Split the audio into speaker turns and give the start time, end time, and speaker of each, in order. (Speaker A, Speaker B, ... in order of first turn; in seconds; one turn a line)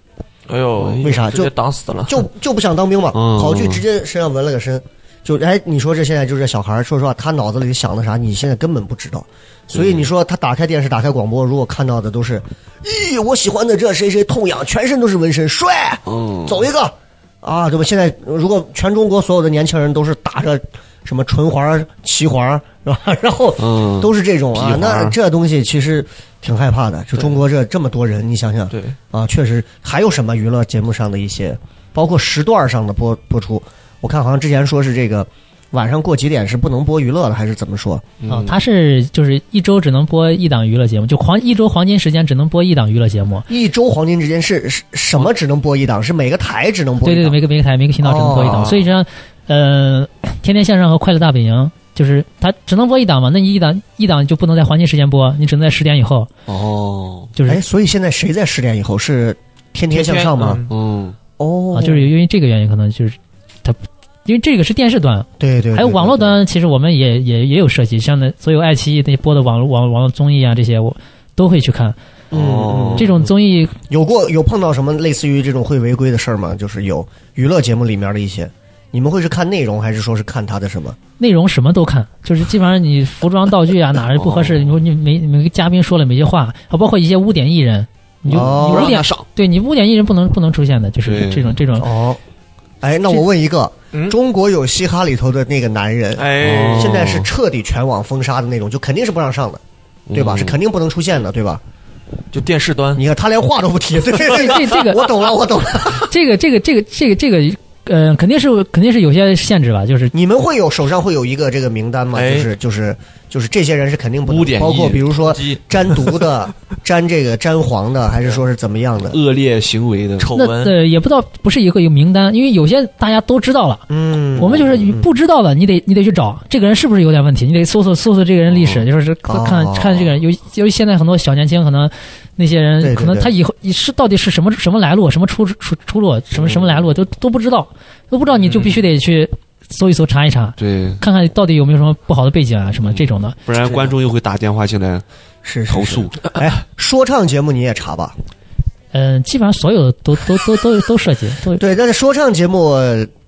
Speaker A: 0.5-2.2
Speaker B: 1.0-1.5
Speaker B: 2.0-38.1
Speaker C: 3.1-3.8
Speaker C: 9.7-10.1
Speaker C: 16.1-16.6
Speaker C: 23.6-25.1
Speaker A: 28.7-29.0
Speaker C: 38.2-38.6
Speaker D: 38.3-43.5
Speaker B: 43.5-47.4
Speaker D: 47.0-56.3
Speaker B: 48.0-48.8
Speaker C: 56.5-57.3
Speaker D: 57.3-57.6
Speaker B: 57.5-60.6
Speaker A: 59.9-60.7
Speaker C: 60.7-61.2
Speaker B: 61.4-62.1
Speaker D: 61.7-72.0
Speaker B: 65.4-66.4
Speaker B: 72.3-73.1
Speaker C: 72.3-73.3
Speaker D: 72.9-73.7
Speaker B: 73.9-81.0
Speaker D: 81.2-91.9
Speaker C: 84.1-84.8
Speaker C: 88.3-89.2
Speaker B: 88.3-89.0
Speaker C: 91.0-91.6
Speaker B: 91.8-92.2
Speaker B: 92.8-99.6
Speaker A: 96.2-97.1
Speaker C: 96.4-97.3
Speaker C: 100.1-100.6
Speaker B: 100.1-101.6
Speaker A: 102.3-103.0
Speaker B: 102.9-106.1
Speaker D: 104.3-105.1
Speaker D: 106.0-110.1
Speaker B: 110.1-119.2
Speaker A: 112.1-112.5
Speaker C: 114.3-115.2
Speaker A: 115.2-115.6
Speaker C: 119.1-120.3
Speaker A: 120.2-120.7
Speaker D: 120.3-143.4
Speaker B: 123.9-125.1
Speaker C: 124.4-124.8
Speaker C: 128.5-128.8
Speaker B: 129.3-130.1
Speaker B: 132.8-133.3
Speaker C: 136.4-136.8
Speaker A: 138.5-138.7
Speaker C: 140.6-141.0
Speaker C: 142.8-145.0
Speaker B: 145.4-148.1
Speaker C: 145.7-146.2
Speaker D: 148.9-151.6
Speaker B: 151.6-153.1